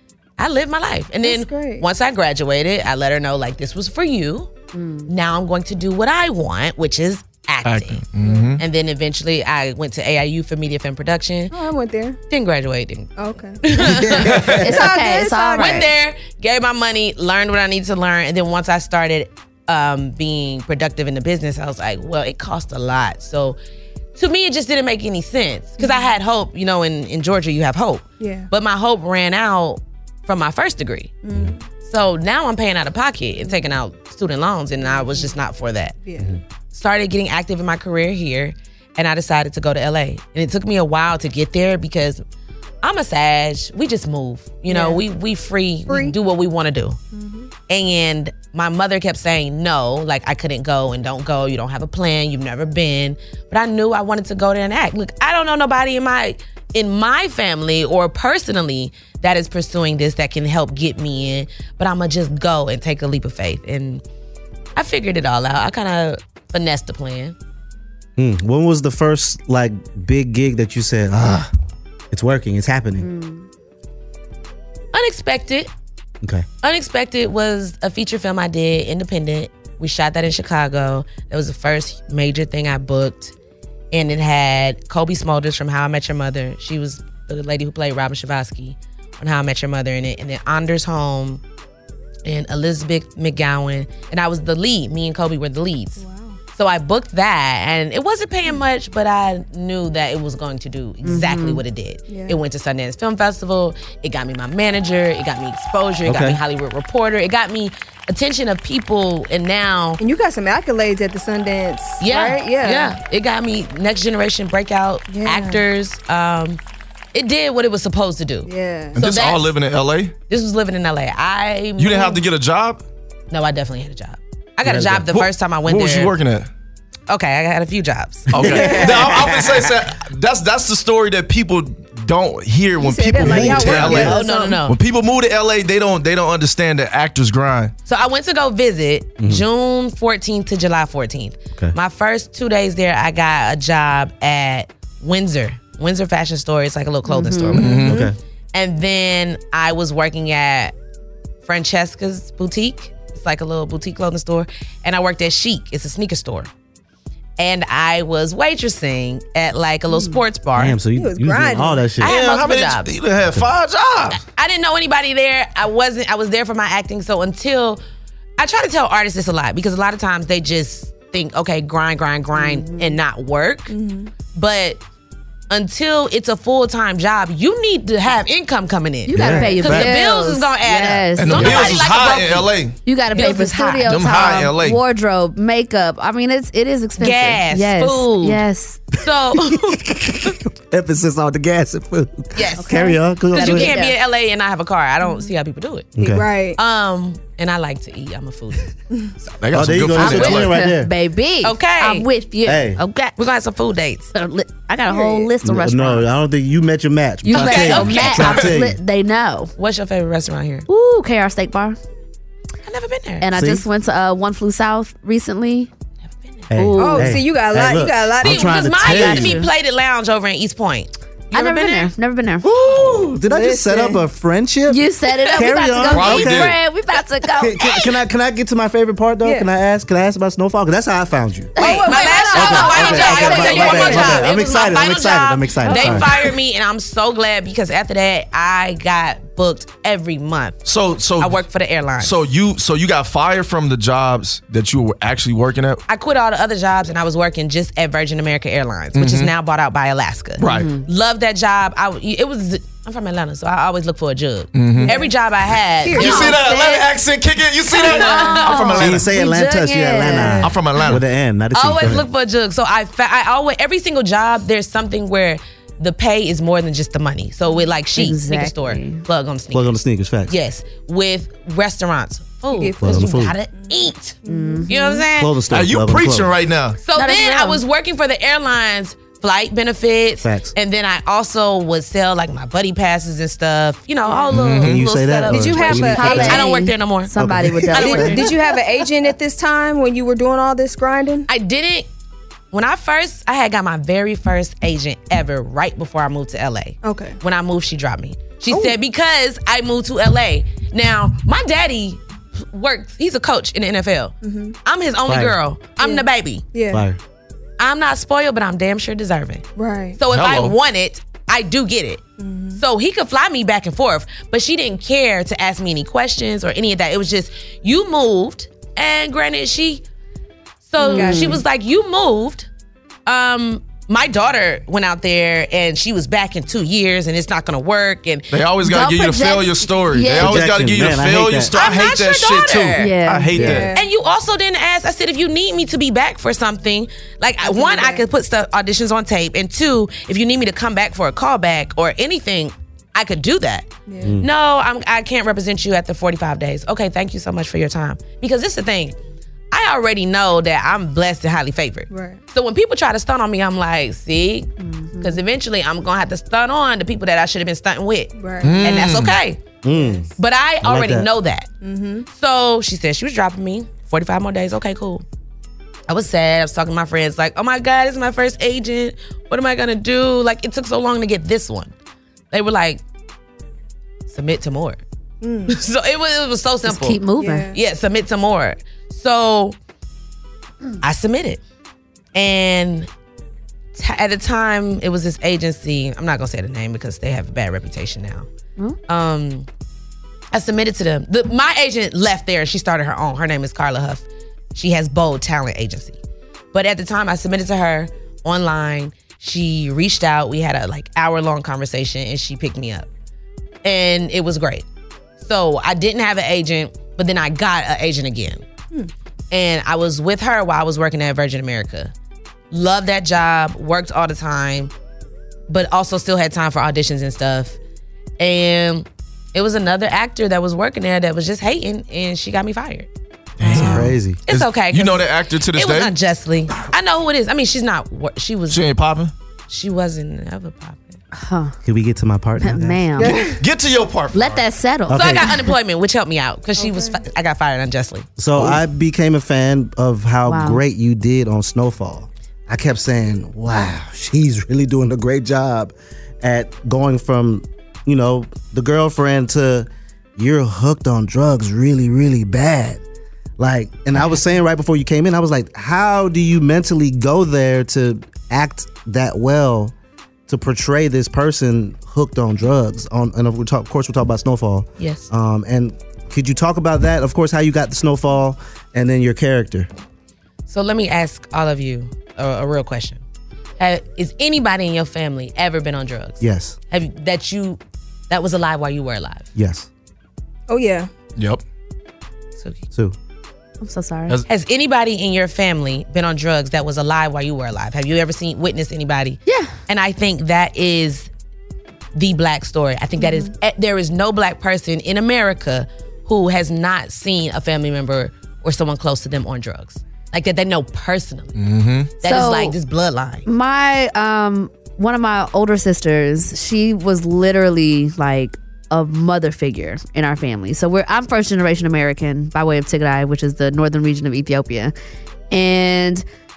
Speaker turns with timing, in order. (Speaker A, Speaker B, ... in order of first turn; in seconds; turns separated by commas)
Speaker A: 0.4-4.5, Speaker B: 1.2-1.8, Speaker C: 4.7-5.1, Speaker A: 5.1-8.0, Speaker D: 7.6-8.6, Speaker A: 8.6-11.5, Speaker B: 11.5-12.2, Speaker A: 12.3-14.5, Speaker B: 13.2-15.9, Speaker E: 13.7-14.9, Speaker C: 14.5-15.9, Speaker A: 15.6-23.6, Speaker A: 24.1-31.1, Speaker B: 25.8-26.1, Speaker B: 28.2-28.5, Speaker B: 31.2-31.6, Speaker A: 31.8-35.9, Speaker B: 34.8-35.3, Speaker B: 36.0-36.4, Speaker A: 36.7-42.2, Speaker A: 42.8-47.0, Speaker B: 44.7-45.0, Speaker B: 45.9-46.1, Speaker B: 47.1-47.5, Speaker A: 47.7-64.0, Speaker A: 64.8-67.3, Speaker E: 68.2-71.5, Speaker E: 72.1-73.1, Speaker C: 73.0-73.4, Speaker A: 74.9-75.7, Speaker A: 76.6-83.3, Speaker A: 83.9-91.4, Speaker A: 92.2-96.0, Speaker B: 96.0-96.4, Speaker A: 96.5-110.0, Speaker C: 101.0-101.6, Speaker B: 102.1-102.4, Speaker E: 106.0-106.4, Speaker B: 110.0-112.9, Speaker A: 112.0-116.6, Speaker B: 115.1-115.6, Speaker A: 117.1-119.5, Speaker B: 118.5-119.0, Speaker D: 119.0-120.1, Speaker A: 120.3-122.2, Speaker D: 121.8-122.8, Speaker A: 123.3-126.1, Speaker E: 124.6-125.1, Speaker D: 125.1-126.5, Speaker A: 127.1-128.3, Speaker D: 128.3-137.7, Speaker E: 128.3-129.8, Speaker B: 128.4-129.1, Speaker B: 132.8-134.6, Speaker E: 133.1-134.2, Speaker A: 133.8-134.8, Speaker A: 137.8-148.0, Speaker E: 139.2-139.4, Speaker C: 147.1-147.8, Speaker D: 147.5-148.0, Speaker B: 147.8-148.1, Speaker E: 147.8-148.2, Speaker A: 148.5-150.7, Speaker A: 151.4-156.5, Speaker A: 157.4-160.8, Speaker C: 159.9-160.2, Speaker E: 160.6-162.2, Speaker B: 160.9-161.8, Speaker A: 162.0-162.9, Speaker D: 162.0-164.2, Speaker A: 164.2-167.8, Speaker A: 168.4-173.7, Speaker C: 172.3-173.0, Speaker B: 173.7-174.1, Speaker A: 174.3-174.8, Speaker A: 175.5-182.5, Speaker C: 179.1-181.9, Speaker E: 179.1-179.9, Speaker D: 181.2-182.8, Speaker C: 182.8-188.9, Speaker A: 183.1-184.0, Speaker D: 183.8-184.8, Speaker A: 187.0-188.4, Speaker A: 189.0-189.8, Speaker E: 189.9-193.8, Speaker A: 192.3-195.9, Speaker C: 192.6-194.0, Speaker E: 195.9-196.3, Speaker B: 196.0-196.6, Speaker A: 196.6-198.7, Speaker D: 199.4-200.6, Speaker E: 199.5-200.9, Speaker A: 200.0-200.4, Speaker C: 200.0-203.2, Speaker A: 201.4-202.1, Speaker E: 202.4-202.8, Speaker A: 203.2-204.1, Speaker C: 204.1-206.1, Speaker B: 204.9-205.3, Speaker E: 205.4-208.8, Speaker C: 207.2-209.5, Speaker A: 207.3-208.5, Speaker D: 207.4-207.8, Speaker A: 209.6-210.7, Speaker C: 210.7-211.8, Speaker A: 212.6-213.3, Speaker C: 213.2-215.7, Speaker E: 213.3-213.6, Speaker A: 216.2-216.5, Speaker E: 216.5-219.4, Speaker C: 216.5-217.2, Speaker B: 216.8-218.8, Speaker A: 218.2-221.9, Speaker C: 218.8-219.5, Speaker C: 221.3-222.5, Speaker E: 222.4-226.6, Speaker B: 223.2-224.0, Speaker C: 224.7-227.8, Speaker D: 225.8-226.6, Speaker E: 227.4-231.6, Speaker B: 229.2-229.5, Speaker C: 231.6-232.6, Speaker B: 231.6-234.3, Speaker A: 231.6-240.6, Speaker E: 232.3-236.1, Speaker C: 235.7-236.1, Speaker D: 240.6-241.4, Speaker A: 241.2-242.2, Speaker D: 242.0-245.8, Speaker A: 245.9-256.8, Speaker D: 248.9-249.3, Speaker D: 250.4-250.7, Speaker C: 250.4-250.9, Speaker D: 254.5-254.9, Speaker B: 254.8-255.1, Speaker B: 255.8-256.6, Speaker D: 255.9-259.1, Speaker A: 257.7-260.3, Speaker C: 257.9-260.4, Speaker E: 258.8-262.1, Speaker B: 260.1-260.5, Speaker D: 260.4-261.0, Speaker A: 261.5-275.3, Speaker C: 267.9-269.0, Speaker E: 269.5-270.3, Speaker B: 272.5-274.9, Speaker E: 272.8-273.3, Speaker C: 274.2-275.0, Speaker E: 275.1-276.3, Speaker D: 275.5-276.8, Speaker A: 276.8-287.1, Speaker C: 276.9-277.6, Speaker E: 280.2-280.5, Speaker B: 284.1-284.3, Speaker D: 284.3-284.8, Speaker E: 284.5-286.4, Speaker B: 285.3-286.4, Speaker C: 285.9-288.3, Speaker E: 287.1-288.1, Speaker A: 287.7-288.3, Speaker B: 287.8-291.3, Speaker A: 291.3-291.9, Speaker A: 292.5-304.1, Speaker B: 296.8-297.2, Speaker B: 298.5-298.8, Speaker B: 304.2-304.6, Speaker A: 304.6-306.4, Speaker E: 305.1-305.4, Speaker B: 305.8-306.8, Speaker E: 306.7-307.0, Speaker A: 307.6-309.4, Speaker B: 309.6-310.0, Speaker A: 310.0-312.0, Speaker D: 310.1-310.5, Speaker B: 312.2-312.6, Speaker A: 312.5-319.8, Speaker A: 320.6-322.5, Speaker C: 320.8-321.4, Speaker B: 320.8-321.4, Speaker A: 323.1-328.3, Speaker D: 328.3-333.7, Speaker C: 328.6-330.4, Speaker E: 330.1-331.5, Speaker A: 331.5-332.9, Speaker C: 332.8-333.4, Speaker E: 333.3-333.6, Speaker B: 333.4-333.9, Speaker A: 333.7-348.9, Speaker B: 337.4-338.1, Speaker B: 343.9-344.2, Speaker E: 344.0-344.3, Speaker A: 349.5-359.4, Speaker B: 351.9-352.2, Speaker C: 354.6-355.2, Speaker B: 358.2-358.6, Speaker D: 358.4-359.2, Speaker E: 359.6-360.1, Speaker B: 359.7-360.0, Speaker A: 360.2-361.5, Speaker E: 360.6-361.1, Speaker B: 361.6-362.1, Speaker A: 362.1-365.0, Speaker A: 365.9-371.7, Speaker A: 372.3-372.8, Speaker A: 374.1-374.8, Speaker B: 375.2-375.6, Speaker A: 375.5-379.6, Speaker C: 376.6-377.5, Speaker B: 377.2-377.5, Speaker A: 380.8-381.4, Speaker A: 382.1-382.9, Speaker A: 383.7-388.3, Speaker A: 388.9-389.5, Speaker A: 390.3-396.0, Speaker A: 396.5-402.9, Speaker A: 403.6-404.6, Speaker A: 405.2-408.4, Speaker A: 409.3-411.9, Speaker A: 412.5-414.7, Speaker A: 415.5-417.6, Speaker A: 418.2-422.9, Speaker D: 423.4-425.9, Speaker A: 423.5-428.6, Speaker E: 423.5-424.2, Speaker D: 428.5-429.1, Speaker A: 429.5-431.0, Speaker C: 431.1-431.6, Speaker E: 431.6-433.1, Speaker C: 432.4-433.2, Speaker B: 433.0-433.4, Speaker D: 433.2-434.4, Speaker C: 434.1-435.5, Speaker E: 434.9-435.3, Speaker A: 434.9-438.1, Speaker B: 436.6-437.0, Speaker E: 438.2-452.8, Speaker C: 440.2-440.6, Speaker E: 453.4-459.7, Speaker E: 460.3-469.7, Speaker A: 464.8-465.1, Speaker A: 470.5-473.0, Speaker A: 473.6-479.3, Speaker E: 476.2-476.6, Speaker E: 479.3-479.7, Speaker B: 480.5-480.9, Speaker D: 481.2-481.4, Speaker A: 482.4-482.6, Speaker C: 483.6-484.2, Speaker A: 484.3-491.1, Speaker C: 489.2-489.5, Speaker A: 491.9-501.3, Speaker D: 501.4-501.9, Speaker C: 502.0-502.5, Speaker A: 502.0-503.2, Speaker C: 503.2-514.7, Speaker C: 515.3-516.0